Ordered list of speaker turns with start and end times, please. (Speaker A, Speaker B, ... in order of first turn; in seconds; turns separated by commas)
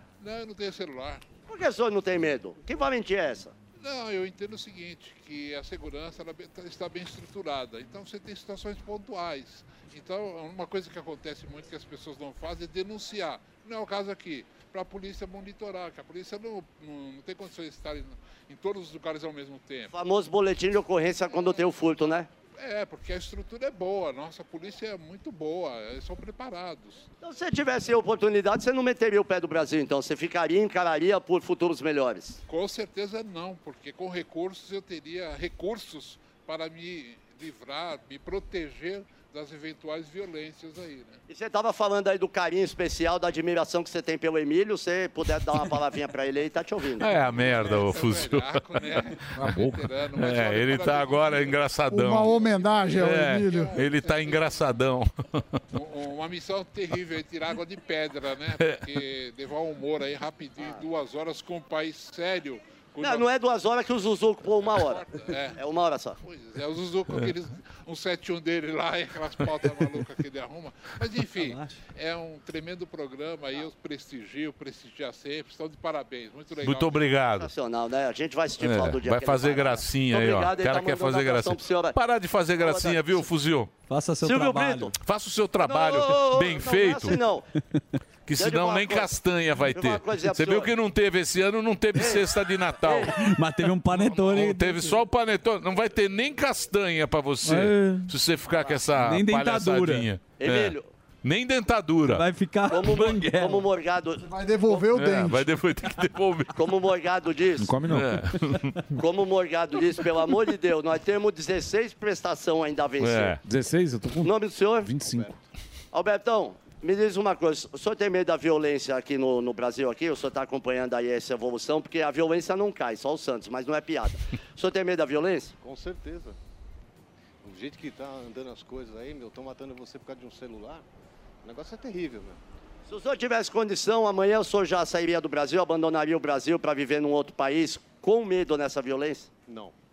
Speaker A: 0.2-1.2, Speaker B: 1.5-3.5, Speaker A: 3.8-19.9, Speaker B: 19.9-22.3, Speaker A: 22.6-27.1, Speaker B: 27.2-32.4, Speaker A: 32.5-41.2, Speaker B: 41.3-47.1, Speaker C: 47.0-48.6, Speaker A: 47.1-51.6, Speaker C: 49.4-52.4, Speaker D: 51.9-53.8, Speaker A: 52.4-54.5, Speaker C: 52.9-55.5, Speaker A: 55.7-63.3, Speaker B: 63.0-65.0, Speaker A: 64.7-65.6, Speaker B: 65.6-66.2, Speaker A: 66.2-77.2, Speaker C: 76.6-77.5, Speaker B: 77.4-82.0, Speaker C: 78.6-83.7, Speaker B: 82.6-83.2, Speaker E: 83.9-84.9, Speaker B: 84.2-84.9, Speaker C: 85.0-87.2, Speaker B: 85.6-87.5, Speaker C: 88.3-93.2, Speaker B: 88.3-89.2, Speaker B: 89.7-90.7, Speaker B: 92.0-93.1, Speaker E: 93.2-95.0, Speaker C: 93.9-102.2, Speaker E: 97.4-98.1, Speaker E: 98.9-100.1, Speaker B: 100.4-100.9, Speaker E: 102.1-103.6, Speaker B: 102.7-104.2, Speaker D: 104.2-105.5, Speaker C: 104.9-106.5, Speaker B: 106.5-107.8, Speaker F: 107.6-108.3, Speaker C: 107.9-108.8, Speaker B: 109.0-113.4, Speaker C: 113.0-113.4, Speaker F: 113.4-115.3, Speaker B: 114.2-114.9, Speaker G: 115.1-115.3, Speaker B: 115.9-125.5, Speaker G: 125.6-126.4, Speaker G: 127.4-130.8, Speaker G: 131.4-132.4, Speaker B: 132.9-139.3, Speaker G: 139.5-139.7